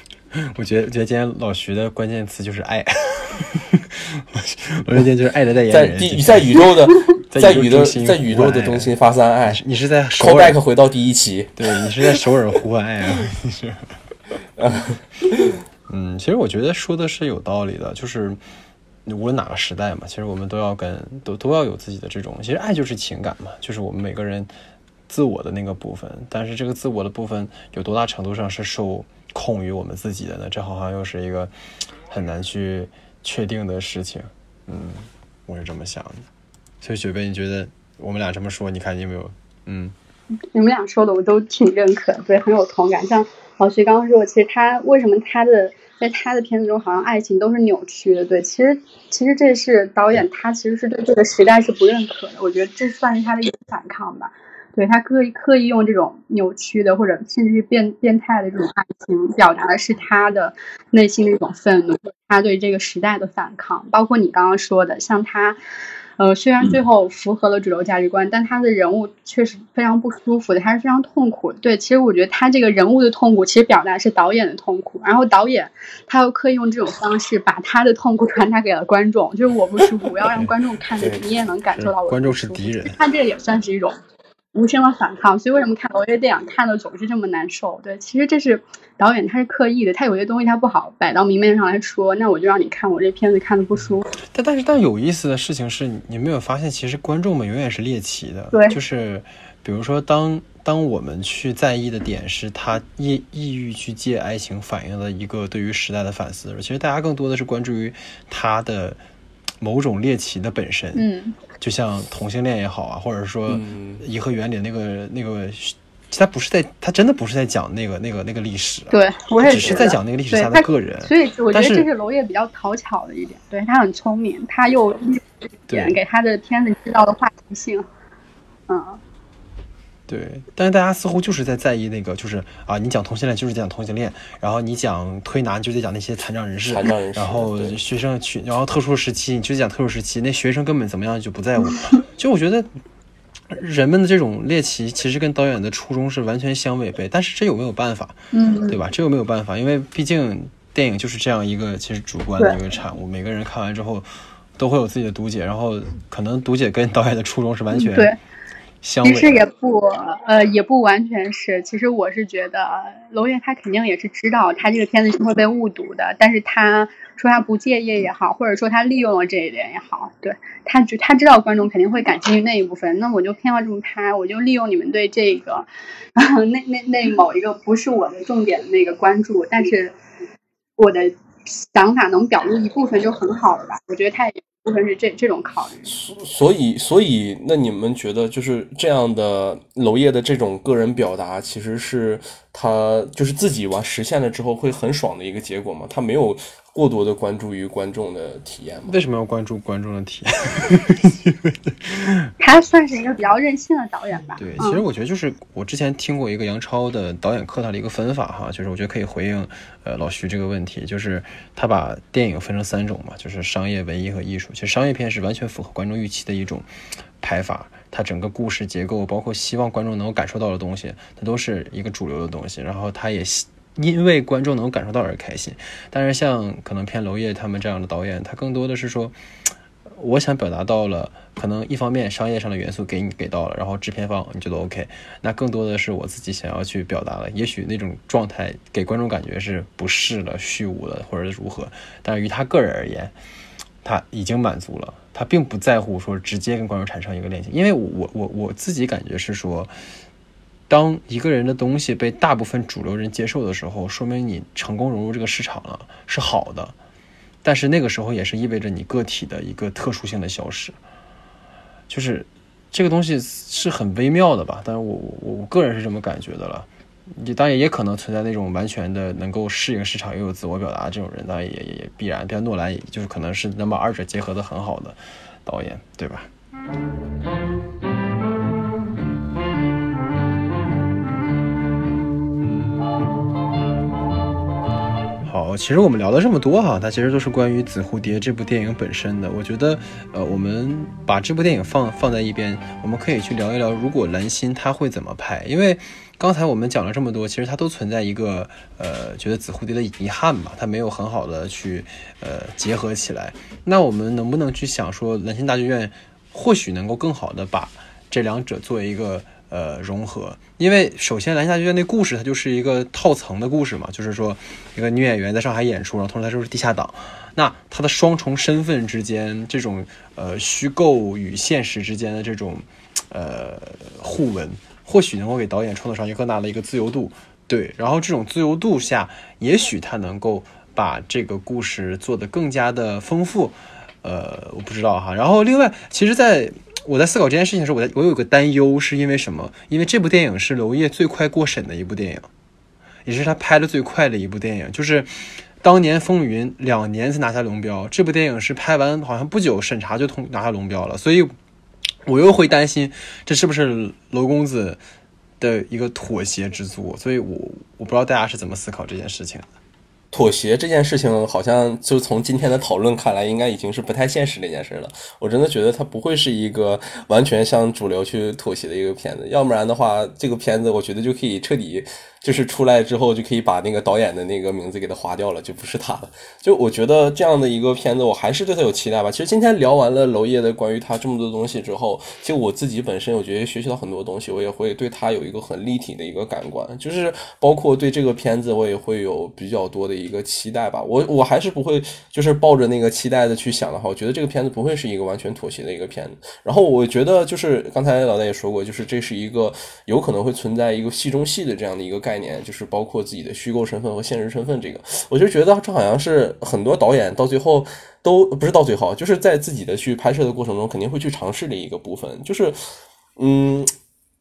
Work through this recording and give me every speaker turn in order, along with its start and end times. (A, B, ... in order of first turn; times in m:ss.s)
0:00.3-0:06.6 A
0:05.7-0:09.6 B
0:07.3-0:09.0 A
0:09.5-0:10.6 A
0:10.2-0:12.2 B
0:11.6-0:13.9 A
0:14.6-0:15.5 B
0:15.9-0:18.4 A
0:19.1-0:24.5 A
0:25.1-0:31.5 A
0:32.1-0:36.3 A
0:36.8-0:40.0 A
0:40.5-1:05.6 C
1:06.2-1:24.0 C
1:21.7-1:23.0 A
1:24.5-1:34.1 C
1:34.3-1:49.0 A
1:38.5-1:38.8 C
1:49.6-1:51.0 A
1:51.0-1:51.4 C
1:51.6-2:01.9 A
1:53.5-1:54.0 B
1:58.9-2:07.9 C
2:05.7-2:06.0 A
2:08.7-2:09.0 C
2:10.1-2:22.7 A
2:16.7-2:17.8 B
2:23.5-2:38.1 A
2:28.3-2:28.8 C
2:37.7-2:38.2 C
2:38.8-2:39.5 A
2:39.0-3:00.0 C
3:00.8-3:06.0 C
3:05.9-3:19.0 B
3:18.9-3:22.3 A
3:22.4-3:24.8 C
3:24.4-3:36.7 A
3:37.2-3:49.1 A
3:49.9-4:03.1 A
4:03.8-4:09.8 A
4:10.7-4:16.8 A
4:17.4-4:20.8 A
4:21.9-4:36.3 A
4:45.2-5:42.3 A
5:43.1-5:51.3 A
5:52.0-5:54.8 A
5:55.4-5:59.5 A
6:00.1-6:52.6 B
6:53.2-6:53.7 B